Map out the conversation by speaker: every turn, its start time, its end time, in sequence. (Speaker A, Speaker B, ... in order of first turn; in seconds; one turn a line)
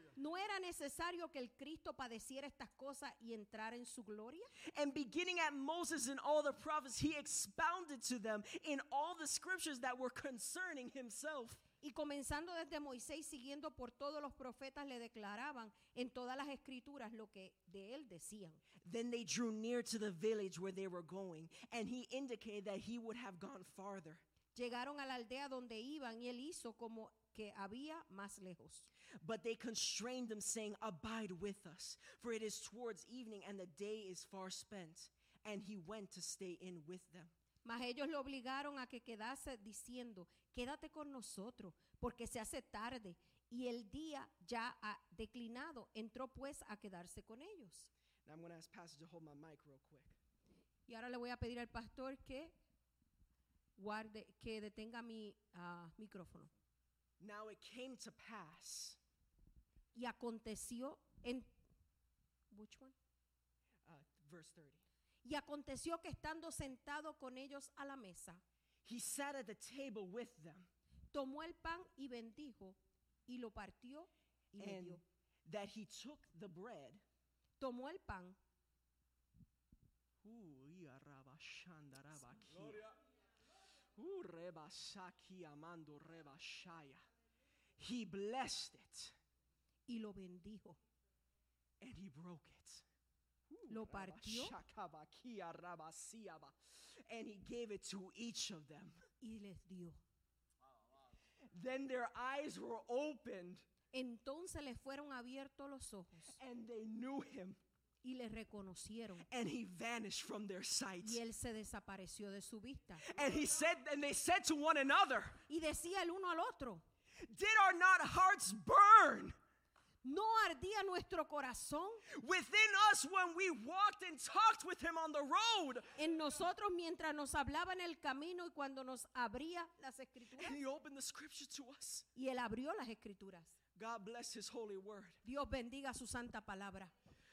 Speaker A: 0.1-4.5
Speaker B: 4.7-11.6
Speaker A: 11.8-18.6
Speaker B: 18.8-24.2
Speaker A: 24.5-28.9
Speaker B: 29.2-37.3
Speaker A: 37.6-47.9
Speaker B: 48.2-50.1
Speaker A: 50.9-52.5
Speaker A: 53.8-56.5
Speaker B: 57.2-59.0
Speaker A: 59.9-61.5
Speaker A: 62.5-62.9
Speaker B: 63.8-64.8
Speaker A: 65.2-68.4
Speaker B: 68.8-70.7
Speaker A: 71.1-75.0
Speaker B: 74.6-77.0
Speaker A: 77.6-78.4
Speaker B: 80.2-82.8
Speaker B: 84.0-87.0
Speaker B: 87.8-89.1
Speaker A: 89.9-90.8
Speaker B: 91.8-92.8
Speaker B: 93.5-96.5
Speaker A: 93.7-94.5
Speaker B: 97.0-99.0
Speaker A: 99.2-100.0
Speaker B: 101.5-103.6
Speaker A: 103.9-106.4
Speaker B: 106.3-107.6
Speaker A: 108.0-109.2
Speaker B: 109.2-111.2
Speaker A: 111.0-113.0
Speaker B: 113.0-115.4
Speaker A: 115.5-116.8
Speaker B: 117.2-119.3
Speaker A: 120.0-122.0
Speaker B: 122.1-125.9
Speaker A: 126.0-130.6
Speaker B: 130.4-132.1
Speaker A: 132.1-133.5
Speaker B: 133.8-135.2
Speaker A: 135.2-136.9